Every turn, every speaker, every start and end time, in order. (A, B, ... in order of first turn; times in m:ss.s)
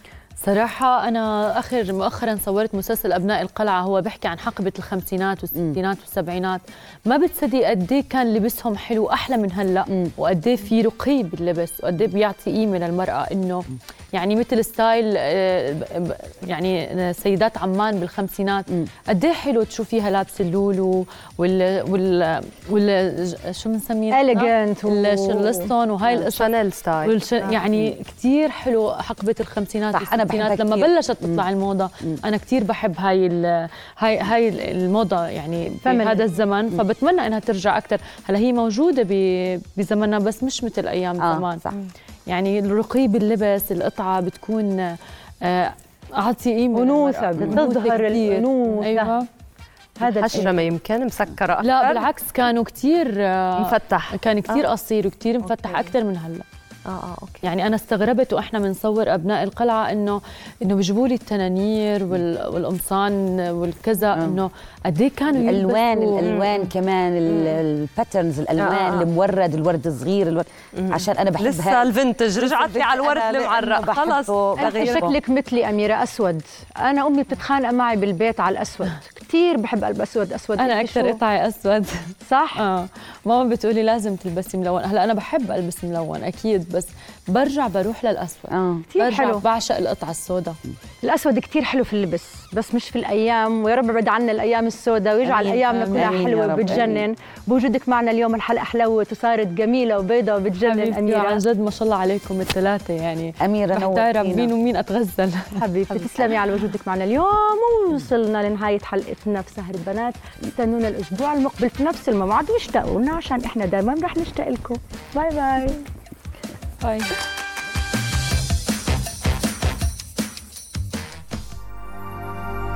0:00.4-0:26.5 A
0:24.1-0:25.7 B
0:26.1-0:27.6 C
0:27.0-0:41.6 A
0:29.9-0:31.4 D
0:35.8-0:36.3 B
0:41.2-0:41.8 D
0:42.3-0:49.3 A
0:46.7-0:49.2 B
0:50.0-0:50.5 B
0:50.0-0:52.1 C
0:51.6-0:56.4 A
0:53.6-0:54.6 C
0:56.9-0:57.4 C
0:57.4-1:06.2 A
1:04.1-1:04.4 D
1:05.3-1:15.2 D
1:06.2-1:06.7 C
1:07.3-1:07.6 C
1:08.6-1:09.1 C
1:10.8-1:14.5 C
1:14.6-1:21.2 B
1:14.6-1:15.1 A
1:20.6-1:30.6 A
1:22.2-1:22.6 B
1:28.5-1:28.9 D
1:28.9-1:29.4 B
1:31.0-1:41.4 B
1:35.2-1:37.1 D
1:35.8-1:36.1 A
1:40.7-1:46.1 A
1:43.4-1:44.5 D
1:45.6-1:55.8 B
1:56.8-1:57.1 A